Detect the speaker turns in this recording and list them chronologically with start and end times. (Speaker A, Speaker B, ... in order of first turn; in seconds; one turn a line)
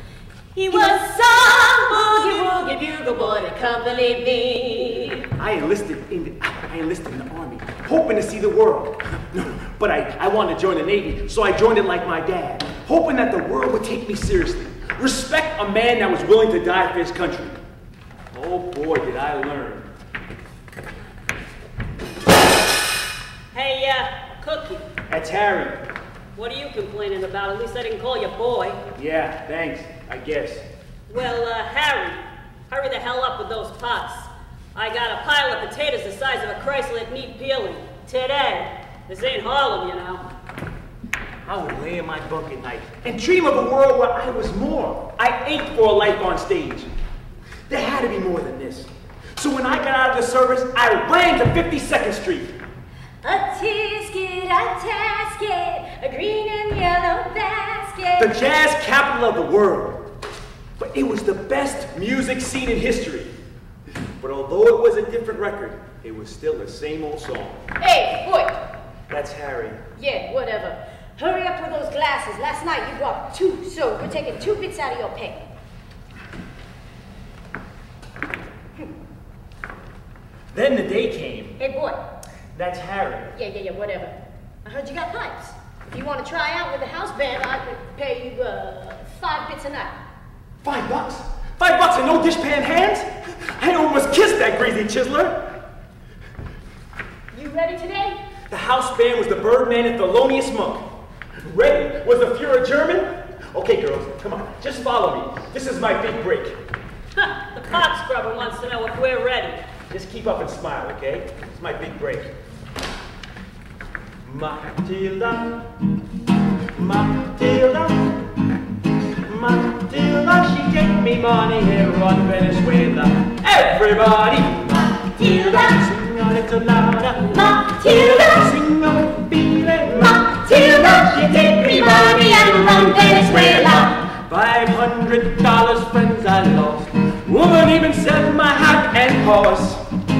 Speaker A: 0.5-2.5
Speaker B: 0.7-5.3
Speaker C: 5.3-17.6
Speaker C: 18.3-19.9
Speaker A: 23.5-24.9
Speaker C: 25.1-25.8
Speaker A: 26.4-28.8
Speaker C: 28.9-30.6
Speaker A: 31.1-40.2
Speaker C: 41.4-46.9
Speaker C: 47.7-52.5
Speaker B: 53.2-58.3
Speaker C: 58.2-60.1
Speaker C: 60.8-63.3
Speaker C: 64.2-67.6
Speaker B: 67.8-68.6
Speaker C: 69.1-69.8
Speaker B: 70.0-75.5
Speaker C: 80.5-81.6
Speaker B: 81.6-82.0
Speaker C: 82.5-83.3
Speaker B: 83.3-89.9
Speaker C: 90.6-95.5
Speaker B: 97.3-98.2
Speaker C: 98.5-100.8
Speaker C: 101.4-106.5
Speaker A: 107.2-109.6
Speaker C: 109.9-112.3
Speaker C: 114.2-115.7
Speaker C: 116.7-118.1
Speaker C: 119.2-139.8
Speaker B: 125.0-125.7
Speaker B: 127.3-128.5
Speaker B: 130.0-133.9